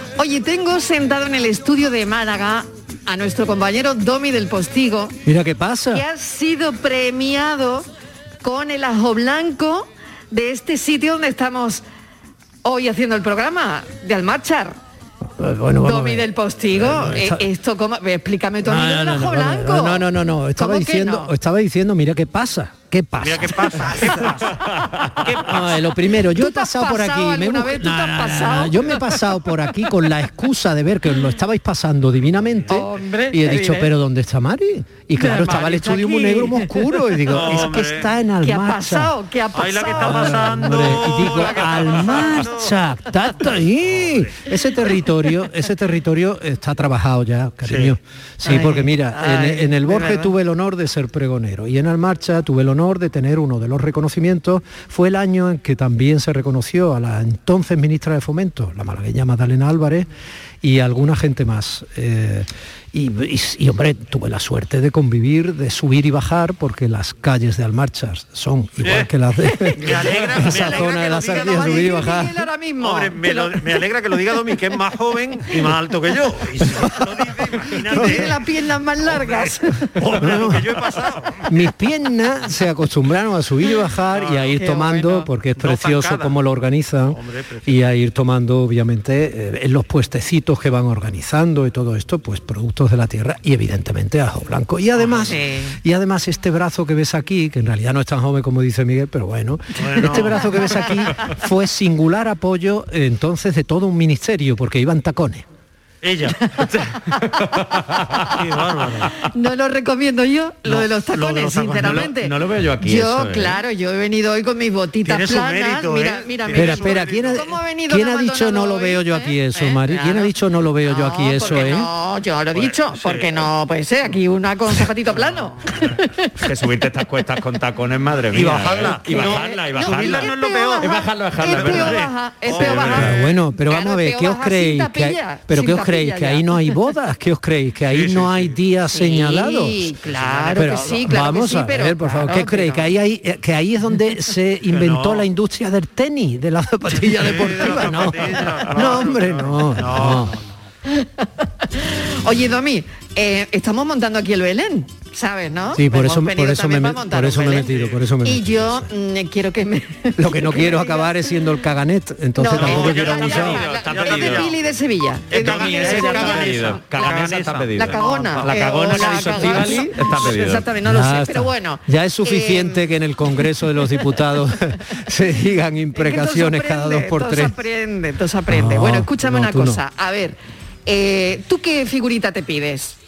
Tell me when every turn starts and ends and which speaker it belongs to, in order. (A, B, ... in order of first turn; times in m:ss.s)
0:00.2-0:05.2 A
0:05.3-0:06.0 B
0:05.9-0:07.9 A
0:08.4-0:11.8 A
0:12.6-0:14.8 A
0:15.4-0:17.5 B
0:15.8-0:21.3 A
0:18.6-0:24.2 B
0:23.2-0:24.6 C
0:25.2-0:39.1 B
0:25.3-0:25.6 C
0:26.4-0:29.3 A
0:32.7-0:33.9 A
0:35.2-0:36.8 A
0:37.3-0:38.1 C
0:38.4-0:41.9 A
0:39.6-0:44.5 C
0:40.0-1:00.1 B
0:47.6-0:47.9 C
0:48.4-0:50.3 A
1:00.6-1:12.4 B
1:08.8-1:09.1 C
1:09.6-1:13.6 A
1:09.8-1:12.0 C
1:12.8-1:18.4 C
1:16.7-1:17.0 B
1:17.9-1:19.7 A
1:18.0-1:18.3 B
1:19.0-1:21.4 C
1:20.2-1:20.7 B
1:21.5-1:45.4 B
1:24.1-1:24.6 C
1:24.6-1:25.3 A
1:25.6-1:26.4 C
1:27.1-1:27.8 C
1:35.0-1:35.4 C
1:35.2-1:35.8 A
1:39.8-1:40.8 C
1:46.0-1:46.4 C
1:48.3-1:49.2 C
1:49.2-2:00.3 A
1:50.7-1:52.1 C
1:51.8-1:53.6 D
1:55.0-1:57.5 C
1:56.5-2:01.9 B
2:00.8-2:06.1 A
2:02.6-2:03.5 C
2:05.1-2:06.0 C
2:06.4-2:12.0 D
2:08.3-2:13.3 C
2:09.1-2:16.6 A
2:12.6-2:19.9 B
2:17.9-2:18.6 C
2:18.9-2:22.9 A
2:20.1-2:21.0 C
2:20.6-2:30.3 B
2:24.7-2:25.3 C
2:26.9-2:30.6 C
2:31.8-2:37.7 A
2:35.7-2:38.9 B
2:37.5-2:38.0 C
2:38.2-2:41.1 A
2:40.2-2:43.6 B
2:42.4-2:47.2 A
2:42.5-2:44.6 C
2:42.6-2:44.5 D
2:45.3-2:49.7 C
2:45.3-2:50.7 D
2:47.8-2:52.8 A
2:50.8-2:57.6 B
2:56.0-3:03.0 A
2:58.5-2:59.8 B